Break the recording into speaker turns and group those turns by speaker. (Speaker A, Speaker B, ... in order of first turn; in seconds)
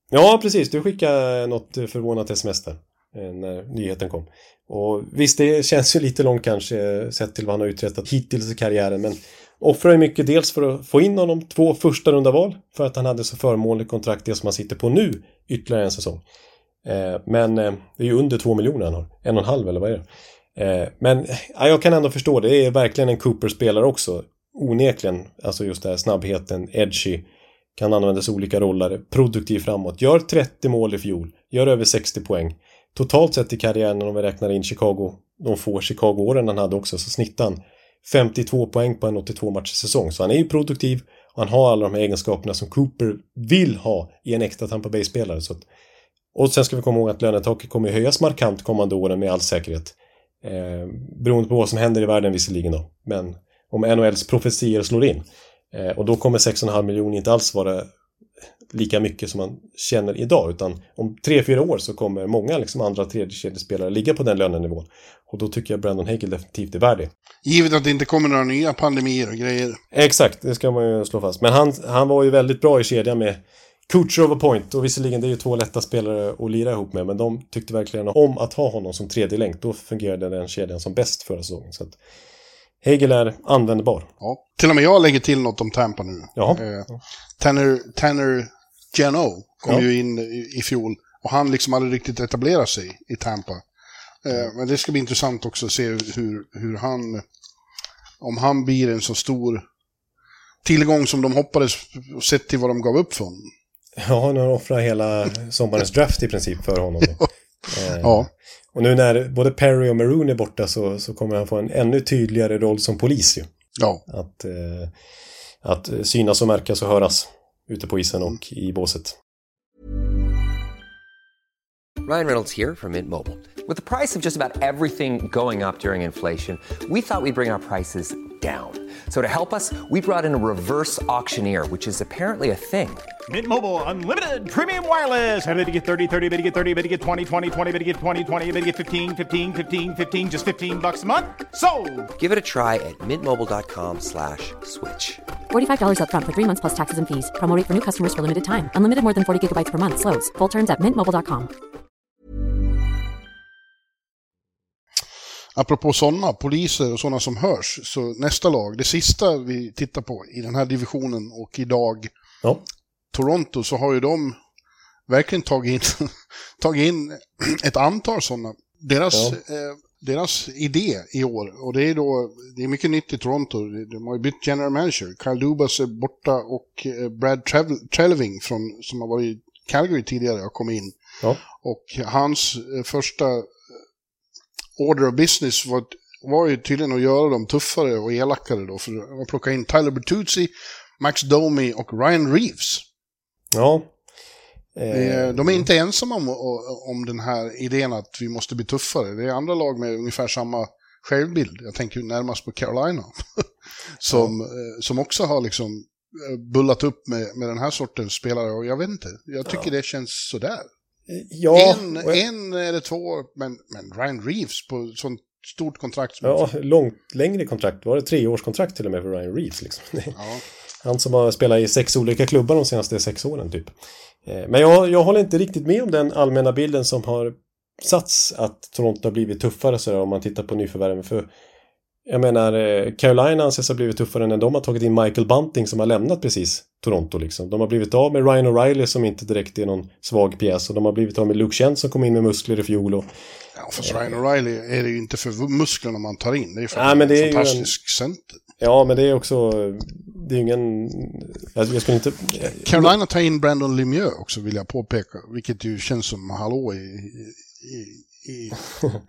Speaker A: 0.1-16.2, 16.9-27.2, 27.8-45.6, 46.4-57.9, 58.7-67.1, 69.9-82.0, 82.8-84.1, 86.4-86.6, 104.0-113.5, 114.1-114.9, 115.6-119.2, 193.5-193.9, 194.8-195.7, 211.1-212.2, 216.2-220.2, 220.8-223.7, 224.3-231.3, 232.1-243.1, 243.8-244.1, 246.7-247.7, 248.6-252.9
Speaker B: 67.5-69.8, 84.2-86.9, 87.4-93.6, 94.2-97.2, 98.2-99.6, 100.7-103.5, 108.0-108.3, 155.6-162.1, 163.1-164.4, 165.1-181.0, 181.5-183.5, 184.8-192.9, 194.9-203.5, 204.0-210.7, 211.5-216.5, 220.2-220.4, 243.6-248.4, 252.4-258.6
Speaker C: 122.0-133.1, 142.2-145.2
Speaker D: 133.3-142.1
Speaker E: 145.5-151.5